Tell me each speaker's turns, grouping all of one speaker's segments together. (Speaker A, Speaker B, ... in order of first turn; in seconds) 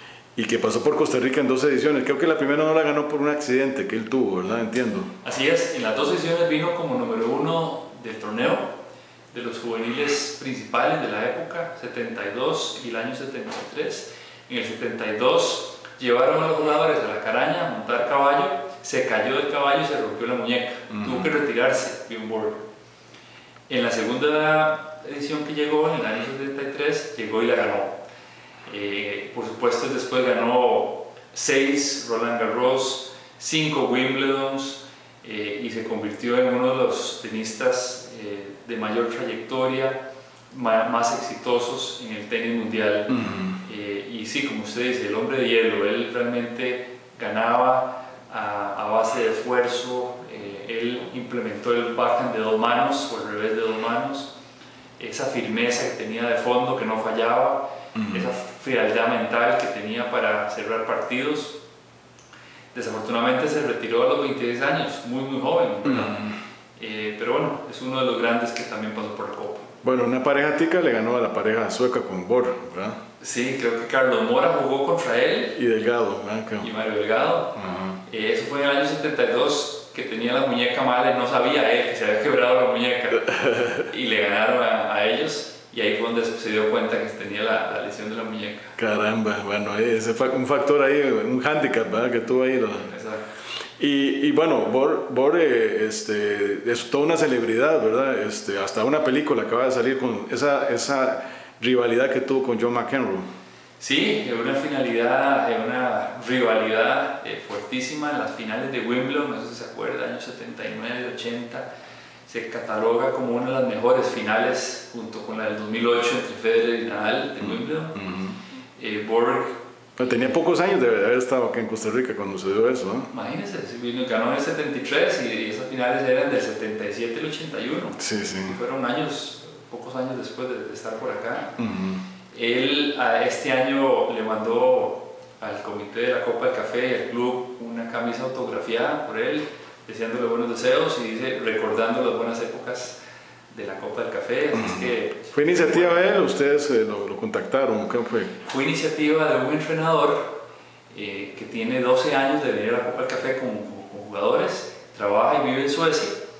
Speaker A: 0.4-5.1, 20.9-21.3, 43.1-43.6, 58.0-58.3, 65.9-66.3, 69.8-73.0, 75.6-76.7, 77.6-78.0, 83.4-83.7, 88.8-92.9, 93.8-103.3, 118.0-118.4, 120.0-123.1, 128.0-128.6, 131.6-132.0, 144.6-148.3
Speaker B: 5.2-8.7, 9.3-22.6, 23.7-28.0, 28.7-40.0, 40.5-54.3, 55.0-61.6, 62.7-69.7, 73.2-75.6, 76.6-88.8, 92.8-93.3, 103.8-111.7, 112.3-118.0, 118.8-119.6, 123.1-131.6, 132.3-143.0, 143.5-146.2, 148.4-150.4, 150.9-156.2